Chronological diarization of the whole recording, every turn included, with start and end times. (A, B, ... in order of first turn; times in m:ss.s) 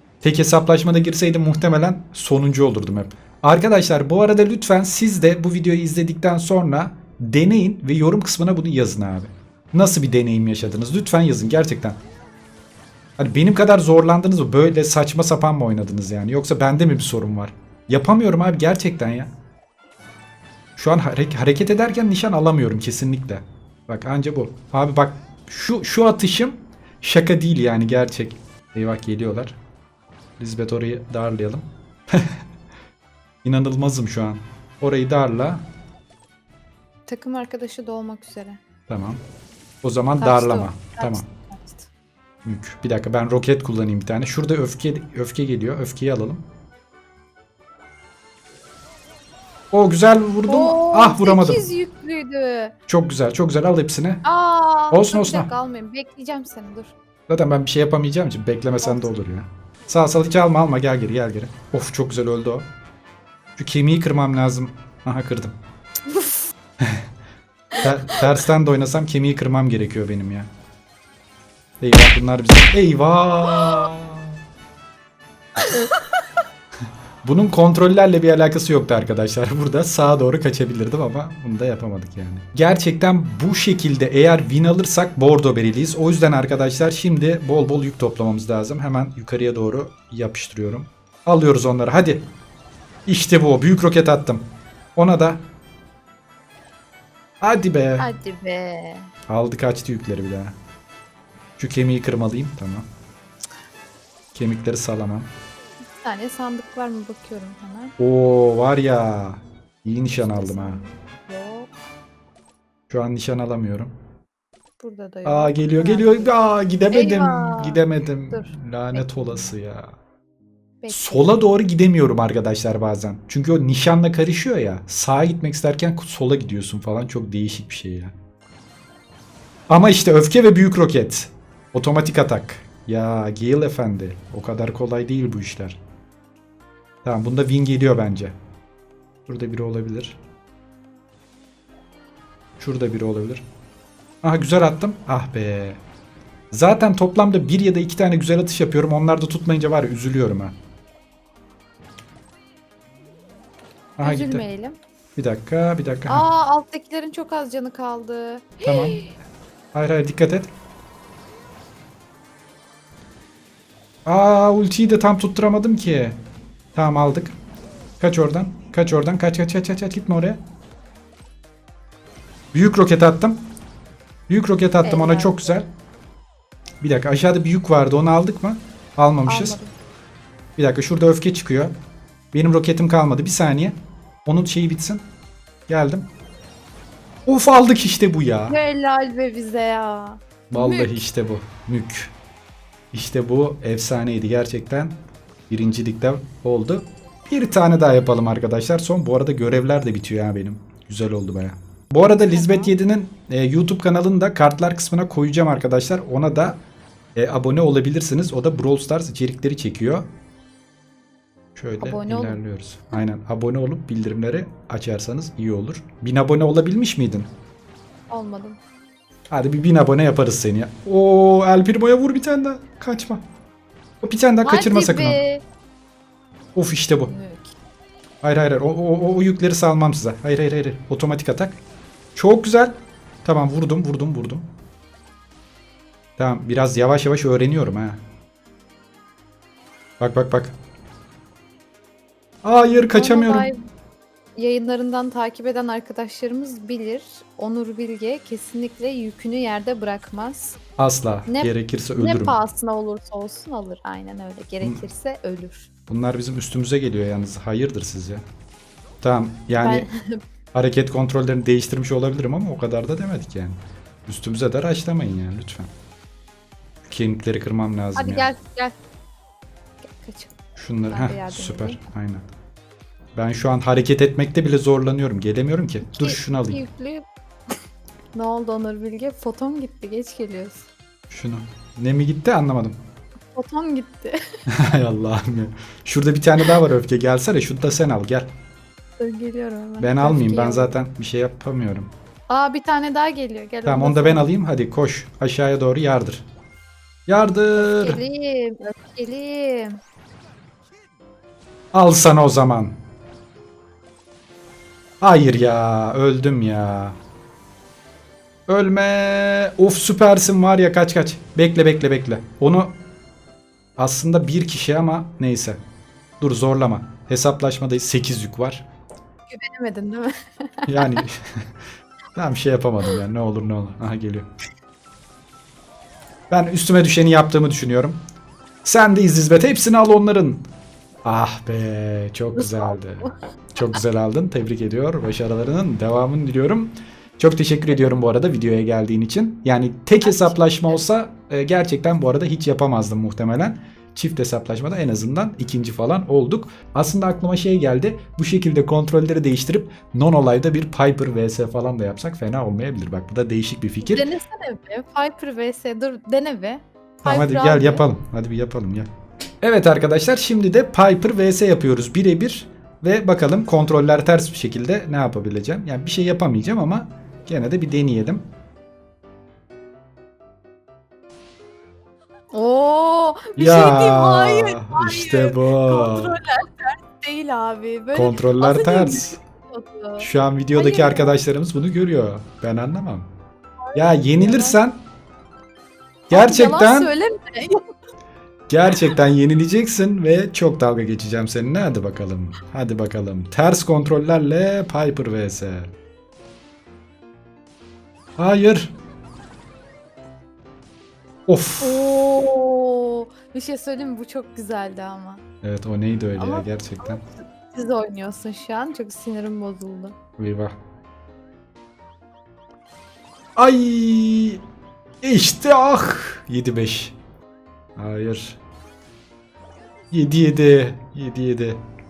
0:00.2-0:12.0 A
0:13.2-0:19.3 A
0:20.8-0:29.6 A
0:30.4-0:32.4 A
0:33.4-0:35.6 A
0:37.1-0:38.6 B
0:38.9-0:39.2 A
0:39.8-0:41.2 A
0:40.2-0:41.9 B
0:42.4-0:46.4 A
0:49.7-0:51.7 A
0:50.5-0:52.7 B
0:52.9-0:54.2 A
0:54.2-0:56.9 B
0:54.9-0:55.5 A
0:57.3-1:02.7 A
0:58.8-0:59.1 B
1:03.6-1:05.6 A
1:06.1-1:06.4 B
1:07.8-1:10.5 A
1:07.8-1:08.2 B
1:11.8-1:14.4 A
1:15.6-1:15.9 B
1:17.2-1:32.2 A
1:33.0-1:34.4 A
1:35.0-1:35.4 A
1:37.4-1:38.1 A
1:38.0-1:39.1 B
1:39.3-1:40.6 A
1:41.6-1:42.8 A
1:44.3-1:45.3 A
1:45.9-1:47.9 B
1:48.0-1:50.8 A
1:50.2-1:51.7 B
1:52.9-1:53.9 A
1:54.8-1:56.3 B
1:55.2-1:59.9 A
1:56.9-1:59.5 B
2:00.8-2:01.4 B
2:00.9-2:08.1 A
2:09.7-2:15.8 A
2:17.0-2:18.3 A
2:19.2-2:20.2 A
2:22.6-2:23.4 A
2:24.2-2:25.8 A
2:26.5-2:30.5 A
2:34.0-2:34.4 A
2:34.0-2:34.8 B
2:35.2-2:36.2 A
2:36.1-2:39.1 B
2:38.6-2:39.0 A
2:39.7-2:40.5 A
2:44.0-2:46.2 A
2:46.7-2:47.4 A
2:48.0-2:50.4 A
2:52.5-2:53.4 A
2:54.3-2:55.7 A
2:54.8-2:55.6 B
2:56.8-2:59.6 A
2:59.3-2:59.7 B
3:00.6-3:01.7 A
3:02.3-3:05.0 A
3:05.7-3:06.1 A
3:07.2-3:08.6 A
3:08.5-3:10.9 B
3:10.5-3:12.1 A
3:12.9-3:14.9 A
3:15.5-3:26.6 A
3:22.3-3:22.7 B
3:27.1-3:30.0 A
3:31.6-3:37.3 A
3:31.8-3:32.4 B
3:38.1-3:38.6 B
3:39.3-3:43.2 A
3:44.0-3:45.2 A
3:44.4-3:45.4 B
3:46.5-3:47.1 A
3:47.0-3:47.5 B
3:48.2-3:51.6 A
3:52.1-3:52.7 A
3:53.2-3:54.4 A
3:56.2-3:58.0 A
4:00.0-4:00.5 A
4:02.4-4:03.5 A
4:02.6-4:03.6 B
4:04.4-4:10.6 B
4:10.8-4:12.4 A
4:11.3-4:15.7 B
4:15.9-4:18.2 A
4:19.0-4:19.8 A
4:19.6-4:20.2 B
4:20.5-4:25.7 A
4:26.8-4:28.3 A
4:28.0-4:28.7 B
4:29.8-4:30.3 B
4:30.6-4:32.2 A
4:30.9-4:31.8 B
4:33.2-4:36.6 A
4:35.9-4:37.1 B
4:38.1-4:40.7 B
4:41.1-4:42.8 A
4:43.3-4:44.2 B
4:44.5-4:48.3 A
4:49.0-4:50.7 B
4:49.8-4:51.9 A
4:52.3-4:54.3 B
4:53.6-4:56.2 A
4:57.1-4:58.0 A
4:57.5-4:59.8 B
5:01.7-5:02.7 A
5:05.0-5:07.0 A
5:08.5-5:12.7 A
5:13.8-5:15.6 A
5:16.2-5:18.6 A
5:19.3-5:21.0 B
5:20.7-5:21.4 A
5:22.1-5:24.3 A
5:26.3-5:28.0 A
5:28.6-5:30.4 A
5:31.0-5:54.1 A
5:32.4-5:33.8 B
5:40.0-5:40.8 B
5:53.8-5:57.8 B
5:57.0-5:58.9 A
5:59.4-6:08.2 A
6:12.3-6:21.2 B
6:13.4-6:16.2 A
6:17.9-6:19.2 A
6:20.0-6:23.1 A
6:23.6-6:24.6 B
6:23.7-6:24.8 A
6:26.1-6:27.6 B
6:26.1-6:26.9 A
6:28.5-6:35.7 A
6:28.7-6:29.0 B
6:38.2-6:38.7 A
6:41.3-6:41.8 A
6:41.6-6:45.2 B
6:45.4-6:47.0 A
6:46.2-6:49.9 B
6:50.2-6:50.5 A
6:53.4-6:54.4 A
6:55.0-6:57.0 A
6:57.8-6:58.4 A
6:59.9-7:01.6 A